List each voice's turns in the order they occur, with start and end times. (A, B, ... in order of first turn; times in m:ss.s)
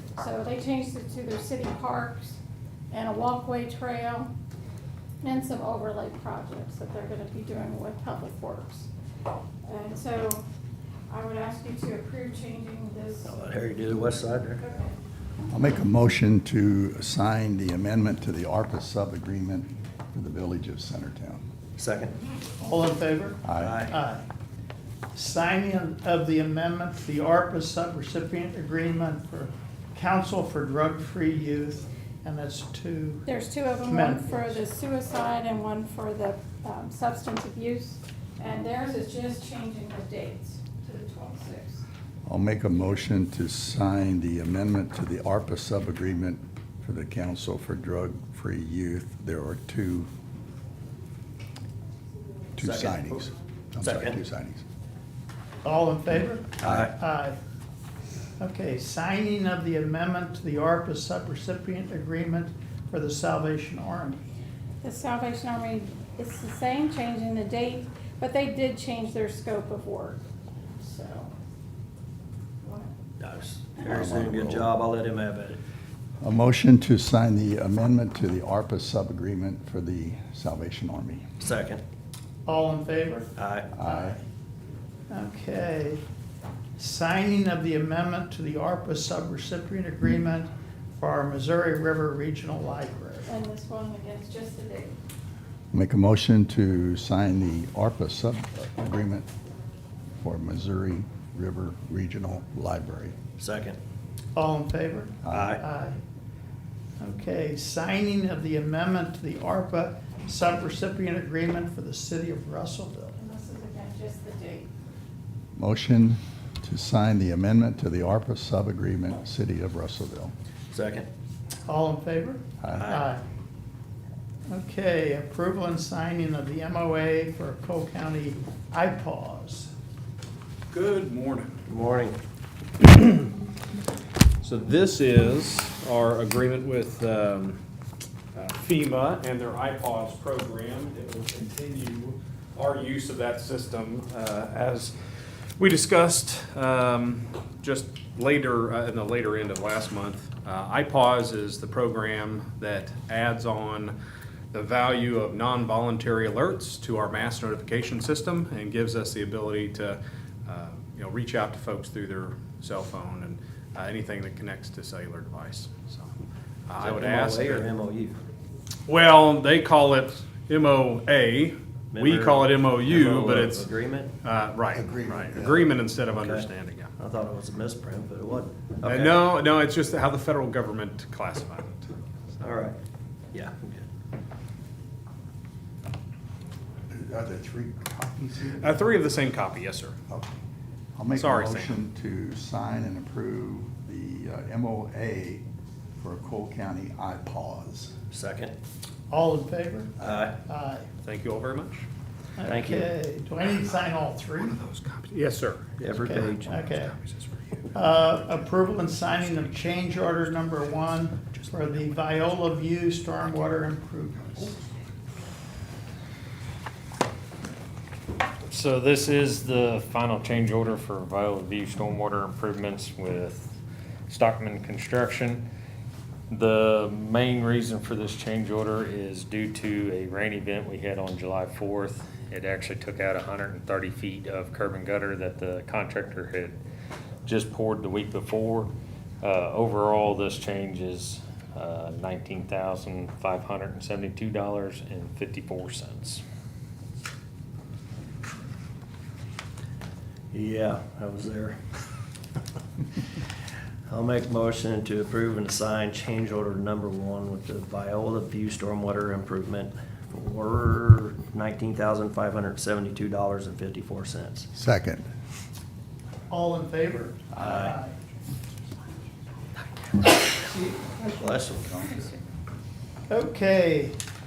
0:00.2-0:02.4 A
0:02.9-0:04.3 A
0:05.2-0:08.9 A
0:09.6-0:10.4 A
0:11.1-0:13.3 A
0:13.2-0:14.6 B
0:14.6-0:14.9 A
0:15.5-0:21.4 C
0:21.8-0:22.2 B
0:22.6-0:24.2 D
0:23.4-0:23.8 C
0:23.5-0:24.0 B
0:25.1-0:33.2 D
0:33.2-0:41.8 A
0:33.8-0:34.6 D
0:42.2-0:50.1 C
0:52.6-0:53.3 B
0:52.6-0:54.6 C
0:53.8-0:54.2 B
0:55.6-0:57.4 D
0:56.6-0:56.9 C
0:56.6-0:56.9 B
0:58.4-1:04.3 D
1:04.8-1:10.2 A
1:10.8-1:11.3 A
1:12.6-1:12.9 A
1:13.2-1:15.6 B
1:13.8-1:14.7 C
1:16.2-1:21.2 C
1:21.4-1:21.8 B
1:22.4-1:24.2 D
1:23.4-1:23.7 B
1:23.7-1:24.2 C
1:25.1-1:26.0 D
1:26.8-1:33.3 D
1:33.3-1:35.0 A
1:35.7-1:39.3 C
1:40.2-1:43.2 C
1:43.4-1:43.8 B
1:44.3-1:46.0 D
1:45.2-1:45.5 C
1:45.3-1:45.6 B
1:47.0-1:53.1 D
1:53.2-1:54.7 A
1:55.6-2:00.3 C
2:00.7-2:01.1 B
2:01.7-2:03.2 D
2:02.6-2:02.9 C
2:02.7-2:03.1 B
2:04.5-2:09.7 D
2:10.7-2:11.6 E
2:11.7-2:12.2 B
2:12.8-2:13.3 E
2:14.4-2:17.6 E
2:18.3-2:24.9 E
2:25.6-2:34.0 E
2:34.5-2:46.1 E
2:46.7-2:47.7 E
2:46.8-2:48.2 B
2:48.9-2:53.7 E
2:51.9-2:54.1 B
2:54.2-2:56.9 E
2:54.7-2:55.7 C
2:56.1-2:56.5 B
2:57.0-2:59.2 B
2:58.8-3:02.5 E
3:02.4-3:02.8 B
3:03.3-3:03.8 B
3:06.9-3:08.9 C
3:08.6-3:10.0 E
3:10.9-3:15.4 C
3:11.1-3:11.8 E
3:16.0-3:17.9 C
3:18.1-3:18.5 B
3:19.1-3:20.9 D
3:20.0-3:20.4 B
3:21.0-3:21.8 E
3:22.4-3:24.6 D
3:22.5-3:22.9 B
3:24.4-3:25.8 E
3:25.8-3:26.6 B
3:26.0-3:26.9 D
3:26.7-3:27.2 E
3:27.7-3:34.6 D
3:31.4-3:31.9 B
3:38.5-3:45.4 F
3:46.3-3:56.6 F
3:57.2-4:06.2 F
4:10.3-4:11.6 B
4:13.9-4:24.5 B
4:24.5-4:25.0 C
4:26.3-4:27.9 D
4:27.3-4:27.8 B
4:30.3-4:32.0 B
4:30.5-4:30.8 D
4:33.1-4:34.0 D